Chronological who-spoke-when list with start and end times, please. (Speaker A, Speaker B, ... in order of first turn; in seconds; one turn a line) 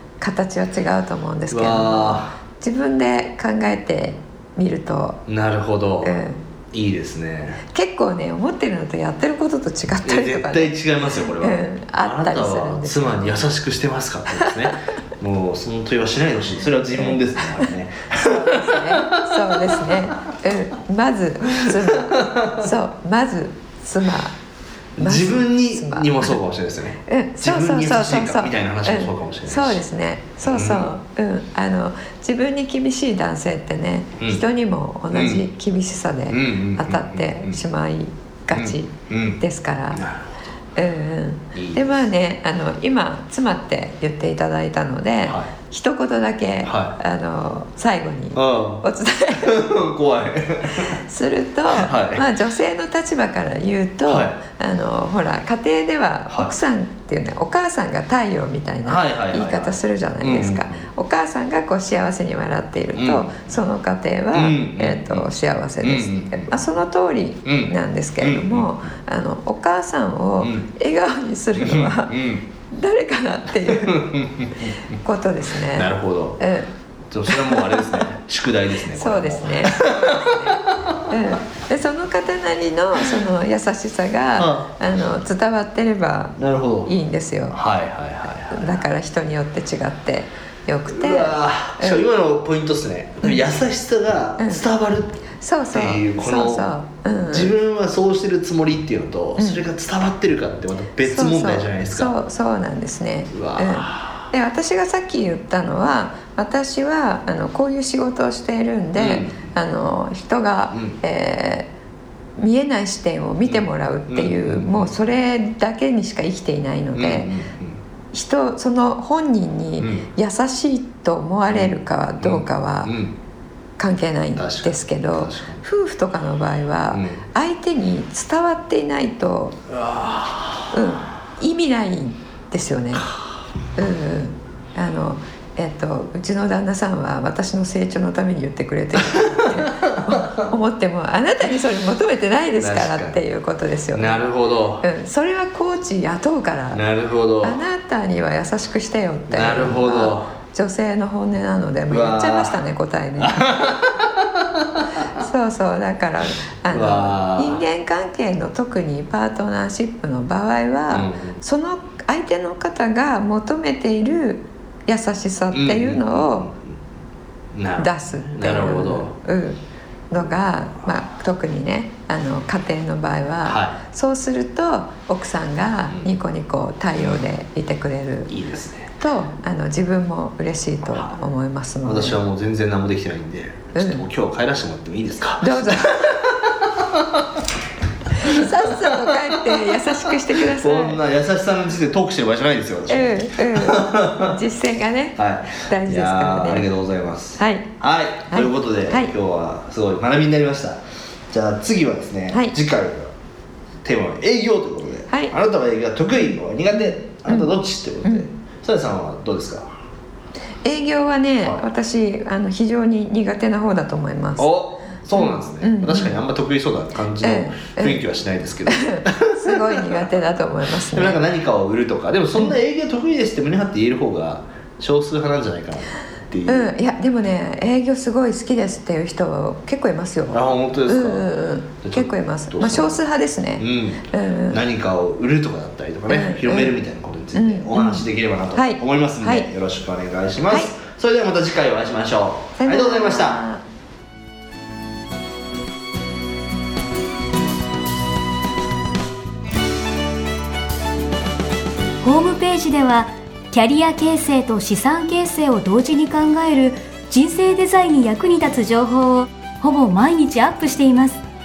Speaker A: 0.2-5.2
Speaker B: 1.5-2.4
Speaker B: 5.3-6.2
Speaker A: 6.0-6.4
Speaker B: 6.7-7.6
Speaker A: 7.7-10.8
Speaker B: 10.0-20.0
Speaker A: 11.4-13.5
Speaker A: 17.0-24.4
Speaker B: 21.6-22.7
Speaker B: 25.0-29.8
Speaker A: 25.0-26.4
Speaker A: 27.1-40.1
Speaker B: 30.4-30.9
Speaker B: 34.2-34.4
Speaker B: 35.1-35.5
Speaker B: 36.3-37.6
Speaker B: 38.5-39.4
Speaker B: 40.0-40.2
Speaker A: 40.8-49.7
Speaker B: 41.5-42.1
Speaker B: 45.3-45.5
Speaker B: 46.6-47.0
Speaker B: 48.4-51.0
Speaker A: 50.8-72.2
Speaker B: 51.7-52.3
Speaker B: 54.1-54.4
Speaker B: 58.8-60.9
Speaker B: 63.0-63.5
Speaker B: 64.3-65.3
Speaker B: 65.8-66.6
Speaker B: 67.5-68.8
Speaker B: 70.4-70.7
Speaker B: 71.6-72.5
Speaker A: 72.7-74.1
Speaker B: 73.7-74.7
Speaker A: 75.0-76.7
Speaker B: 75.6-76.4
Speaker B: 77.1-80.9
Speaker A: 77.3-78.0
Speaker A: 78.9-87.6
Speaker B: 84.4-84.7
Speaker B: 86.4-86.9
Speaker B: 87.5-88.8
Speaker A: 88.5-92.1
Speaker B: 90.9-95.2
Speaker A: 94.4-94.7
Speaker A: 95.4-97.5
Speaker B: 95.7-102.2
Speaker A: 99.4-99.7
Speaker A: 101.0-111.7
Speaker B: 103.3-104.3
Speaker B: 109.0-109.5
Speaker B: 110.7-111.0
Speaker A: 112.4-117.3
Speaker B: 113.5-115.0
Speaker B: 116.9-117.8
Speaker A: 118.1-122.9
Speaker B: 119.8-120.1
Speaker B: 121.5-123.2
Speaker A: 123.8-129.6
Speaker B: 124.4-125.6
Speaker B: 126.9-127.2
Speaker B: 129.7-130.7
Speaker A: 130.7-133.1
Speaker A: 133.8-144.3
Speaker B: 139.1-140.3
Speaker B: 142.6-143.2
Speaker B: 143.9-144.8
Speaker A: 144.8-146.8
Speaker B: 146.7-147.6
Speaker A: 147.4-153.5
Speaker B: 149.3-150.3
Speaker B: 151.9-152.6
Speaker B: 153.2-154.8
Speaker A: 155.2-166.5
Speaker B: 156.7-157.6
Speaker B: 160.9-161.4
Speaker B: 165.5-166.7
Speaker B: 167.5-169.2
Speaker A: 167.8-169.6
Speaker A: 170.1-178.3
Speaker B: 173.4-173.8
Speaker B: 178.3-178.9
Speaker A: 179.0-182.2
Speaker B: 181.8-187.3
Speaker A: 183.8-184.1
Speaker A: 185.4-186.1
Speaker A: 188.2-191.0
Speaker B: 188.2-194.4
Speaker A: 192.9-196.7
Speaker B: 195.2-200.8
Speaker A: 197.4-197.8
Speaker A: 198.3-199.1
Speaker B: 201.3-203.1
Speaker A: 202.3-202.6
Speaker B: 203.8-209.7
Speaker A: 206.7-207.5
Speaker A: 210.6-214.5
Speaker B: 214.4-220.1
Speaker A: 215.2-216.2
Speaker A: 217.2-218.0
Speaker A: 218.7-221.2
Speaker B: 220.7-226.8
Speaker A: 226.5-234.6
Speaker B: 230.3-233.0
Speaker B: 233.6-243.4
Speaker A: 236.1-236.8
Speaker A: 237.3-239.5
Speaker A: 240.5-240.7
Speaker A: 242.6-243.6
Speaker C: 252.0-261.2